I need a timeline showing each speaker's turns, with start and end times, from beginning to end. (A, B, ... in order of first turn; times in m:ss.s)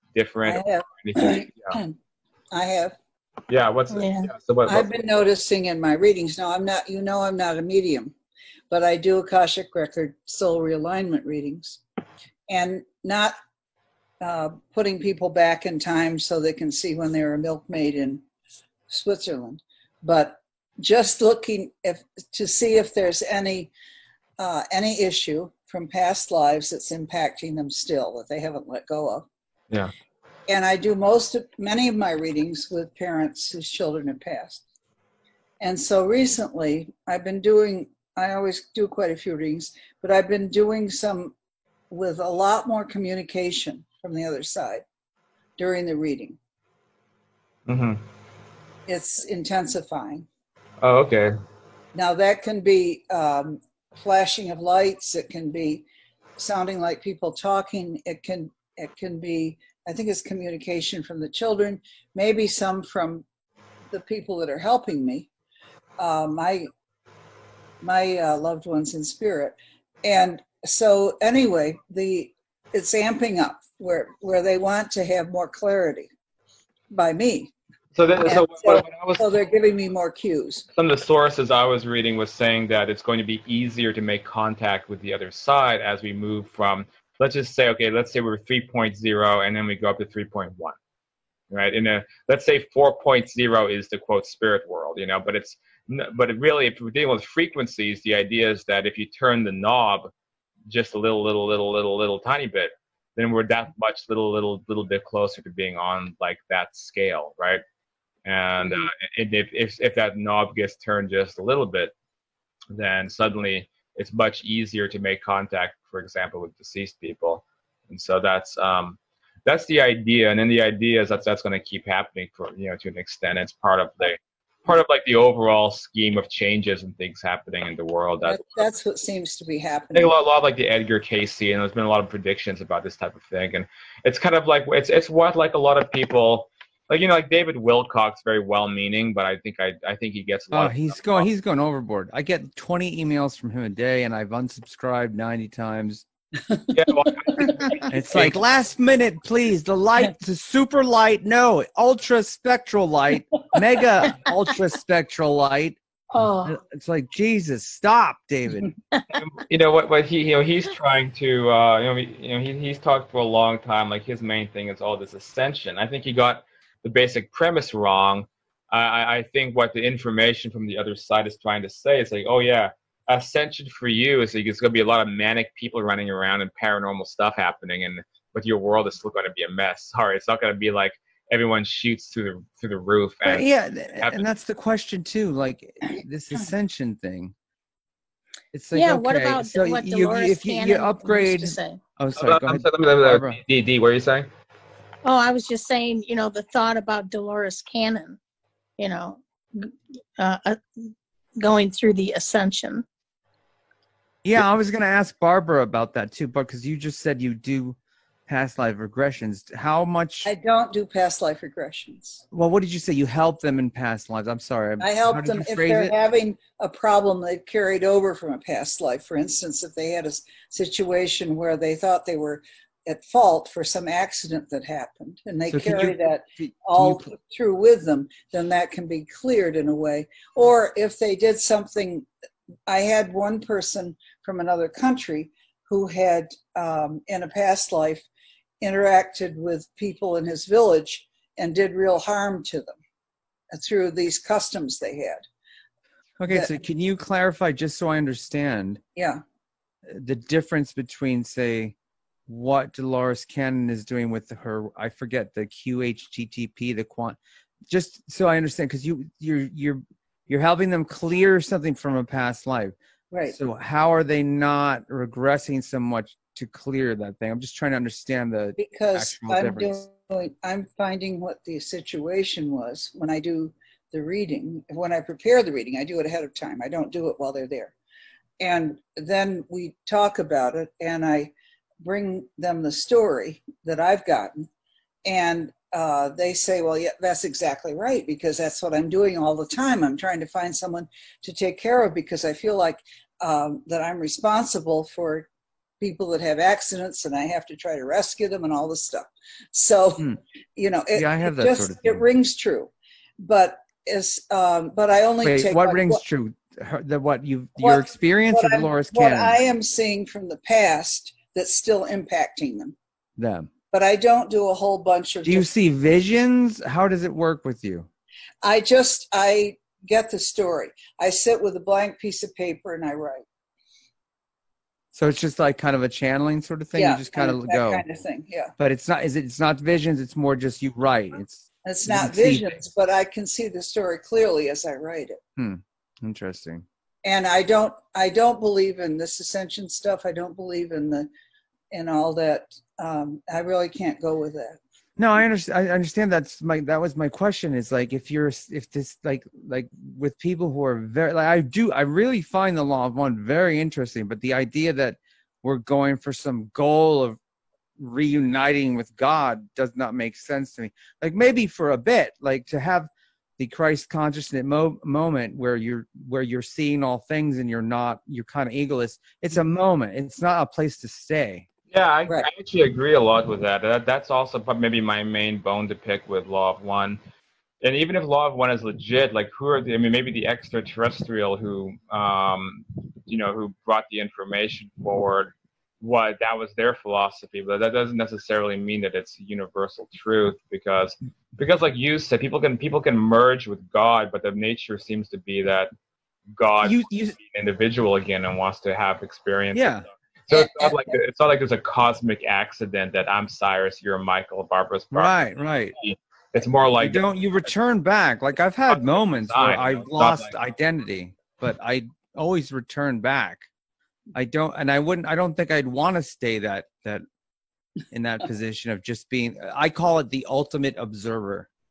0:00.1-0:01.8 A
0:00.4-0:02.0 B
0:02.5-0:02.9 B
0:03.5-0:04.9 A
0:03.9-0:04.3 C
0:04.6-0:08.1 B
0:08.7-0:11.8 B
0:12.5-0:13.3 B
0:14.2-0:18.2 B
0:18.9-0:23.7 B
0:24.4-0:29.3 B
0:30.5-0:34.6 B
0:35.6-0:41.3 B
0:41.9-0:44.8 B
0:45.6-0:46.4 B
0:47.7-0:48.0 A
0:48.9-0:50.3 B
0:50.8-0:51.3 A
0:51.9-0:55.8 B
0:56.4-1:03.2 B
1:03.9-1:05.3 B
1:06.0-1:06.7 B
1:07.8-1:16.1 B
1:16.9-1:17.5 B
1:17.9-1:19.4 A
1:18.2-1:20.6 B
1:20.7-1:30.8 A
1:31.5-1:40.1 A
1:40.7-1:47.6 A
1:48.2-1:51.9 A
1:52.7-2:08.6 A
2:08.2-2:10.1 B
2:09.9-2:21.3 A
2:20.5-2:26.0 D
2:26.5-2:27.8 B
2:26.7-2:28.4 A
2:27.9-2:35.8 D
2:36.1-2:36.6 B
2:36.4-2:38.7 D
2:39.1-3:03.4 A
3:03.2-3:07.3 D
3:04.0-3:04.2 A
3:08.5-3:13.4 D
3:08.7-3:11.8 C
3:12.2-3:14.3 A
3:15.0-3:18.2 C
3:18.8-3:22.8 C
3:24.2-3:30.3 D
3:30.2-3:32.2 B
3:32.3-3:35.9 D
3:34.8-3:52.1 B
3:45.5-3:47.1 D
3:52.7-3:58.1 B
3:58.6-4:02.8 B
4:03.5-4:05.2 B
4:06.2-4:08.8 D
4:06.3-4:06.5 B
4:09.0-4:09.2 B
4:09.8-4:11.7 D
4:12.3-4:17.2 D
4:17.7-4:22.7 D
4:23.1-4:23.4 B
4:23.3-4:29.8 D
4:28.6-4:37.7 B
4:38.4-4:44.5 B
4:45.0-4:55.3 B
4:55.8-5:06.0 B
5:00.9-5:02.0 D
5:05.2-5:09.4 D
5:07.6-5:12.8 B
5:13.2-5:13.5 D
5:13.7-5:15.5 B
5:15.2-5:17.9 D
5:18.4-5:23.2 B
5:24.9-5:27.8 D
5:26.7-5:28.5 B
5:28.6-5:32.5 D
5:31.6-5:35.2 B
5:35.4-5:36.6 D
5:37.0-5:41.1 B
5:41.7-5:44.6 B
5:45.0-5:57.2 D
5:57.8-6:11.4 D
6:11.7-6:17.0 A
6:17.6-6:35.7 A
6:36.3-6:45.1 A
6:36.6-6:37.2 D
6:39.5-6:39.8 D
6:40.3-6:40.9 B
6:44.9-6:45.7 D
6:45.8-6:47.0 A
6:46.8-6:53.5 D
6:48.7-6:50.4 A
6:54.1-6:57.0 D
6:57.9-7:01.5 D